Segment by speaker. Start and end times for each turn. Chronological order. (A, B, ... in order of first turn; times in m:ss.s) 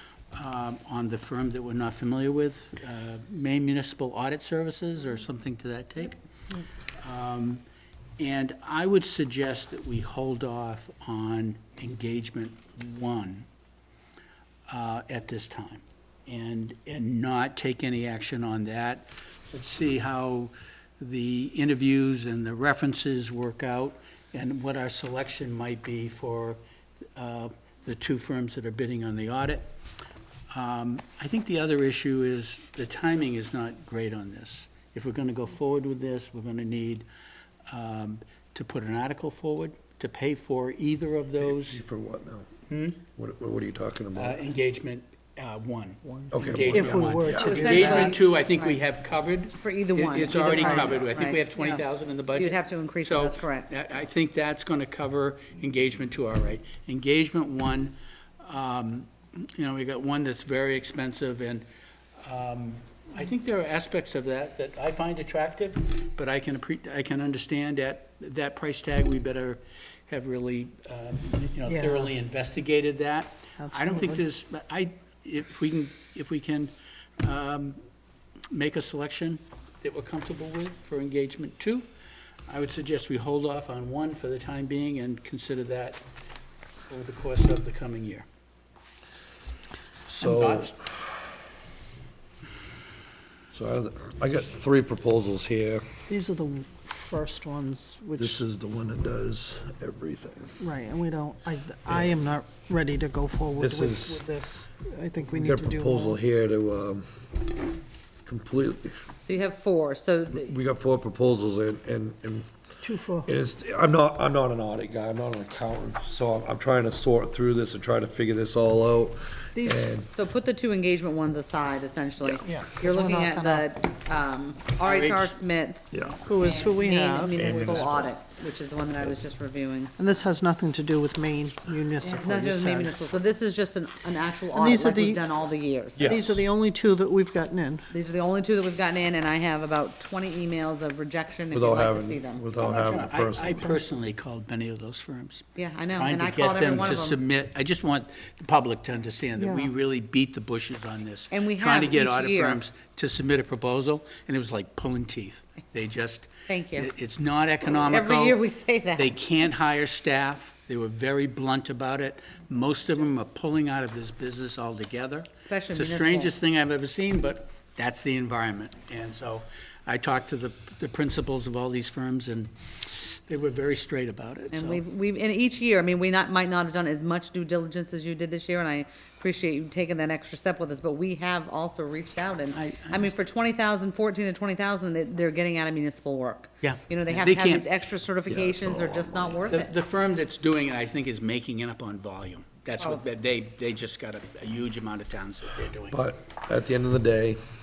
0:00.3-0:06.2 A
0:07.0-0:07.6 A
0:08.2-0:13.4 A
0:14.7-0:26.6 A
0:27.2-0:29.7 A
0:30.5-0:37.0 A
0:37.7-0:41.8 A
0:41.4-0:42.5 B
0:42.7-0:43.0 A
0:43.1-0:44.4 B
0:44.2-1:01.6 A
0:46.0-0:48.2 C
0:46.3-0:47.8 B
0:47.3-0:48.8 D
0:49.6-0:51.4 D
0:50.5-0:51.0 C
0:51.6-0:51.8 C
0:52.4-0:53.7 D
1:02.2-1:17.8 A
1:11.6-1:12.1 C
1:13.6-1:14.2 C
1:18.5-1:21.9 A
1:22.5-1:26.0 A
1:26.9-1:28.2 A
1:30.1-1:30.7 A
1:30.2-1:31.2 B
1:33.5-1:35.8 B
1:36.1-1:38.4 C
1:38.2-1:40.6 B
1:40.6-1:46.2 C
1:41.9-1:42.2 B
1:43.6-1:44.2 B
1:45.3-1:47.0 B
1:48.2-1:48.9 B
1:49.2-1:50.5 D
1:50.3-1:52.5 B
1:52.8-1:53.3 C
1:53.2-2:00.1 B
1:59.6-1:59.9 C
2:00.1-2:05.9 D
2:02.4-2:03.6 C
2:04.8-2:05.3 A
2:05.9-2:06.3 B
2:06.2-2:07.5 C
2:06.4-2:09.9 D
2:07.3-2:08.1 B
2:10.0-2:13.0 C
2:12.0-2:16.2 D
2:14.5-2:15.2 C
2:16.0-2:16.4 B
2:16.0-2:17.9 C
2:17.9-2:22.7 D
2:21.5-2:23.7 B
2:22.6-2:38.4 A
2:25.6-2:27.2 D
2:29.4-2:29.7 C
2:31.3-2:32.6 D
2:36.5-2:36.9 D
2:37.6-2:39.1 D
2:39.0-2:54.8 A
2:45.4-2:46.3 D
2:54.5-3:09.7 D
3:02.5-3:03.1 A
3:06.6-3:07.6 A
3:08.3-3:09.5 B
3:09.5-3:16.0 A
3:15.9-3:17.4 B